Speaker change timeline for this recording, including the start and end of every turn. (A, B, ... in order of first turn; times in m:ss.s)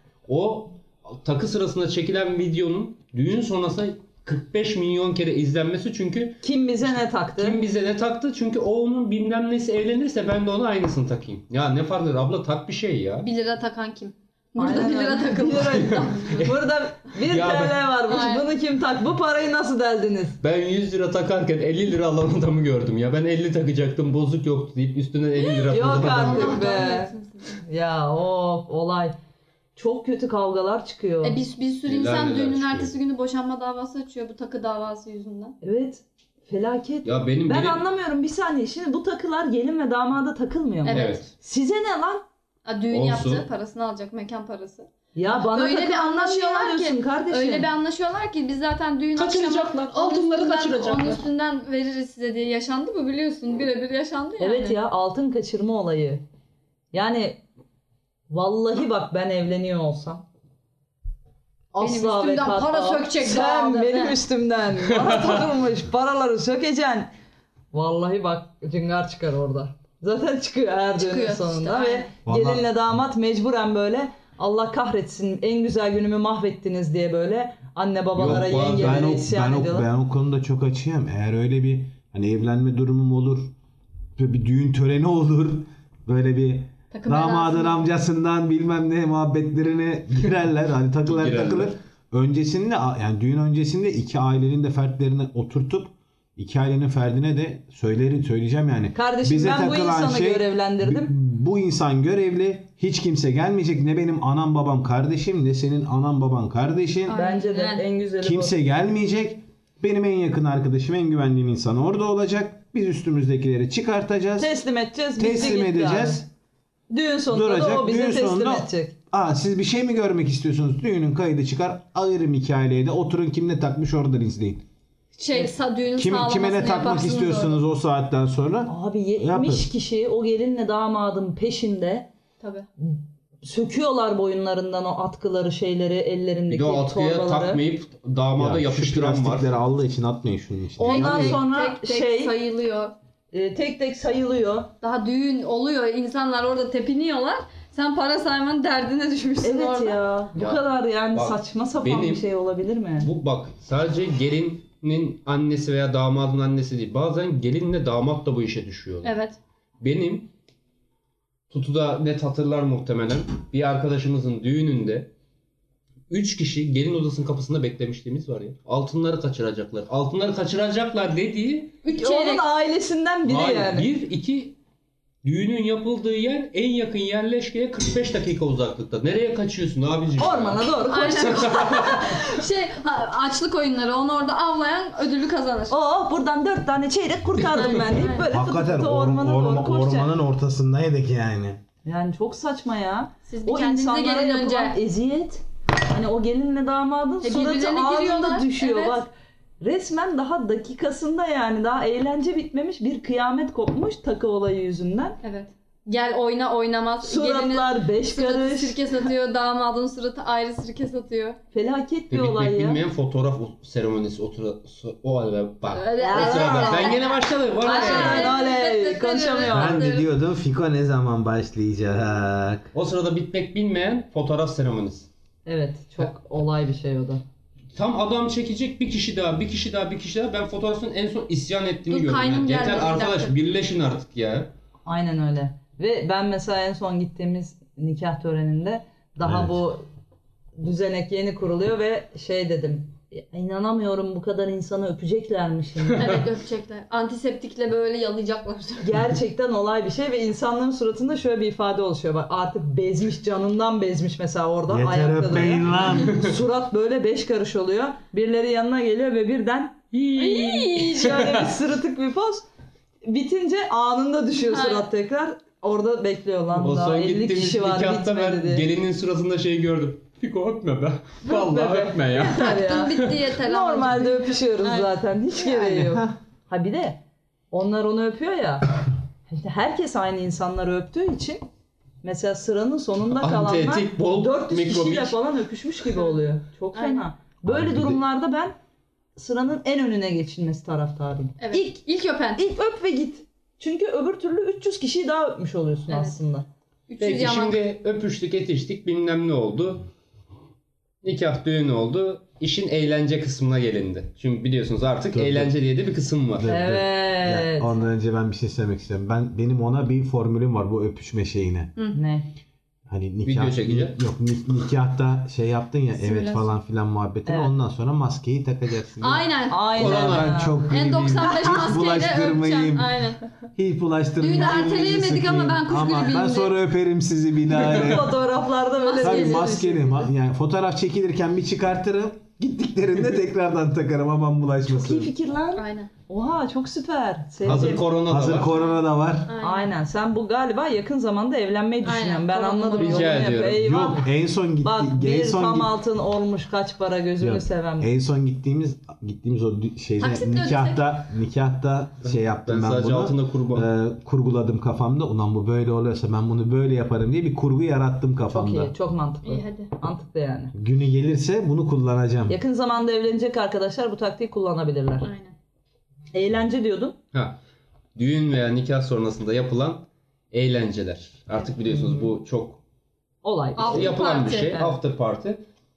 0:00.3-0:13.3 A
0:06.4-0:07.6 B
0:13.2-0:16.5 C
0:14.6-0:20.4 B
0:15.5-0:16.6 A
0:17.2-0:17.9 A
0:18.1-0:18.4 C
0:20.4-0:26.7 A
0:25.4-0:27.6 C
0:25.7-0:29.2 B
0:29.8-0:31.4 B
0:31.2-0:35.6 C
0:31.8-0:32.9 A
0:35.6-0:42.2 B
0:37.0-0:37.8 A
0:40.8-0:41.3 C
0:40.9-0:41.2 A
0:42.6-0:54.8 C
0:42.9-0:43.4 A
0:45.1-0:47.7 B
0:49.1-0:51.2 A
0:54.4-0:56.2 B
0:56.9-0:57.4 B
0:58.3-1:00.2 B
1:01.7-1:07.1 B
1:01.8-1:04.2 C
1:07.7-1:19.9 B
1:11.0-1:12.1 C
1:12.2-1:12.7 D
1:18.2-1:19.1 A
1:18.2-1:23.5 D
1:24.2-1:47.2 D
1:26.9-1:27.9 C
1:31.0-1:31.8 A
1:38.9-1:41.1 B
1:47.1-1:47.8 C
1:47.1-1:48.6 B
1:48.2-1:54.5 D
1:54.4-1:56.2 B
1:55.2-1:56.3 D
1:56.9-1:58.9 B
1:57.3-2:04.6 D
2:05.1-2:07.6 C
2:06.0-2:09.7 D
2:08.7-2:12.1 B
2:12.4-2:12.7 C
2:12.8-2:17.6 B
2:16.5-2:19.5 A
2:18.4-2:21.4 D
2:20.8-2:22.3 B
2:20.8-2:22.9 C
2:23.3-2:24.7 B
2:24.8-2:30.0 C
2:29.4-2:33.1 B
2:30.3-2:32.3 A
2:33.0-2:39.1 A
2:39.0-2:39.4 C
2:39.8-2:40.3 A
2:41.5-2:45.1 A
2:46.1-2:51.8 A
2:51.8-2:52.4 C
2:51.9-2:53.9 B
2:53.2-2:54.6 A
2:55.2-3:00.7 A
3:00.2-3:01.8 B
3:00.9-3:05.8 C
3:01.2-3:02.1 A
3:05.7-3:10.1 B
3:07.5-3:08.3 C
3:08.3-3:11.6 D
3:11.8-3:25.2 B
3:13.3-3:14.8 C
3:17.2-3:19.0 C
3:25.2-3:31.4 C
3:27.0-3:28.9 B
3:31.5-3:32.8 B
3:32.1-3:38.4 A
3:35.7-3:40.1 C
3:36.0-3:37.0 B
3:37.6-3:39.8 B
3:39.4-3:42.7 D
3:42.7-3:45.1 A
3:45.4-3:47.2 B
3:47.7-3:54.5 A
3:51.9-3:53.3 C
3:54.8-3:59.8 B
3:59.2-3:59.5 D
4:00.6-4:06.2 B
4:05.9-4:06.2 A
4:06.0-4:08.9 C
4:08.8-4:19.8 B
4:14.7-4:16.2 D
4:15.8-4:16.3 A
4:19.9-4:21.5 A
4:20.2-4:21.4 C
4:20.9-4:22.4 B
4:23.0-4:28.6 B
4:24.5-4:24.9 C
4:26.5-4:33.2 A
4:31.2-4:37.0 B
4:32.3-4:35.0 C
4:35.4-4:36.1 D
4:37.5-4:38.7 B
4:39.3-4:41.4 B
4:42.0-4:48.6 B
4:43.1-4:45.2 A
4:46.7-4:47.0 C
4:47.5-4:48.0 D
4:49.2-4:51.8 B
4:51.4-4:52.4 C
4:52.4-4:56.4 B
4:55.9-4:56.2 C
4:56.9-4:57.6 C
4:57.0-4:59.8 A
5:01.0-5:06.5 A
5:05.1-5:05.5 D
5:06.4-5:11.7 D
5:06.5-5:07.8 B
5:11.9-5:12.3 B
5:12.9-5:19.2 D
5:13.2-5:14.0 A
5:16.0-5:16.5 C
5:17.2-5:17.5 B
5:19.0-5:20.0 C
5:19.5-5:20.6 B
5:19.7-5:20.4 A
5:19.8-5:22.9 D
5:20.6-5:23.2 C
5:23.6-5:28.2 D
5:24.2-5:26.5 C
5:27.5-5:28.0 A
5:27.5-5:30.1 B
5:28.8-5:29.6 C
5:29.0-5:35.1 D
5:34.6-5:37.8 B
5:35.5-5:35.9 C
5:37.4-5:38.5 A
5:37.4-5:39.3 D
5:38.5-5:39.7 C
5:39.4-5:44.1 B
5:41.8-5:43.3 C
5:42.8-5:43.6 A
5:43.6-5:45.8 D
5:44.6-5:47.9 B
5:47.2-5:58.7 D
5:50.0-5:50.8 C
5:52.0-5:53.7 A
5:58.3-6:00.5 B
5:59.2-5:59.7 C
6:00.5-6:02.4 D
6:02.3-6:05.1 B
6:05.0-6:05.3 C
6:06.1-6:07.0 B
6:07.1-6:07.4 A
6:08.0-6:12.6 A
6:11.7-6:12.1 B
6:13.2-6:14.8 B
6:13.6-6:14.6 C
6:13.7-6:15.4 A